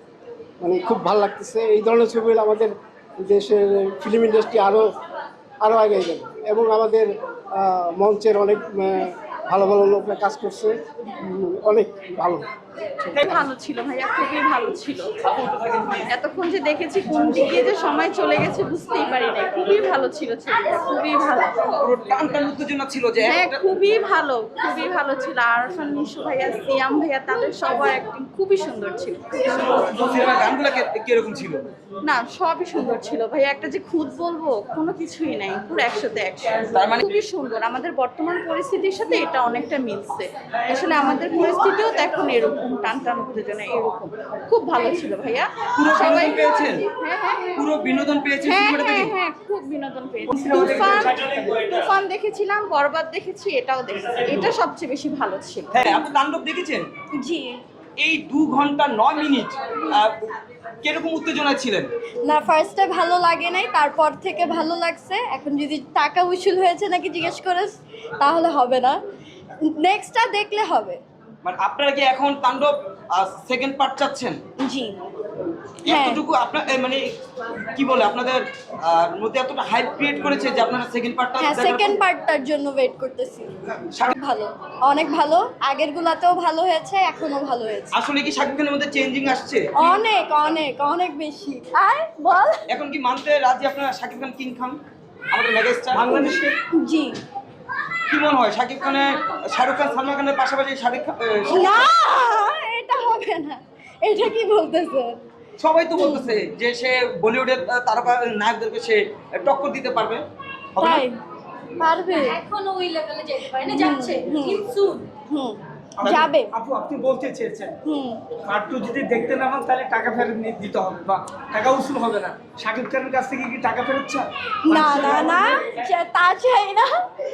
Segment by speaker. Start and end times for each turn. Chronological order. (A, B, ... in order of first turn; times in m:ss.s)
0:00.6-0:04.9 A
0:05.6-0:12.5 A
0:13.0-0:15.3 B
0:15.4-0:16.0 C
0:15.9-0:21.8 B
0:21.8-0:23.6 C
0:23.2-0:30.0 B
0:29.7-0:31.6 C
0:32.0-0:47.6 B
0:36.7-0:37.0 C
0:45.8-0:46.9 C
0:47.6-0:49.1 C
0:48.4-0:56.0 B
0:50.3-0:51.8 D
0:55.7-0:56.9 C
0:57.2-0:57.6 E
0:58.0-1:00.2 C
1:00.8-1:01.9 C
1:02.2-1:09.0 E
1:09.6-1:11.0 E
1:11.4-1:14.4 C
1:14.6-1:15.0 E
1:15.8-1:17.2 C
1:15.9-1:16.2 E
1:17.7-1:22.0 C
1:21.4-1:27.9 E
1:27.9-1:29.7 C
1:29.8-1:32.6 E
1:32.7-1:34.8 C
1:35.3-1:36.4 C
1:36.0-1:36.5 D
1:36.8-1:37.2 E
1:38.1-1:41.9 C
1:41.5-1:45.2 E
1:45.6-1:50.2 C
1:46.0-1:46.3 E
1:50.8-1:51.1 C
1:50.8-1:51.2 E
1:51.8-1:52.4 E
1:52.3-1:55.0 F
1:53.6-1:56.5 E
1:56.0-1:57.8 D
1:57.8-1:58.2 E
1:58.4-2:05.7 D
2:04.6-2:06.9 E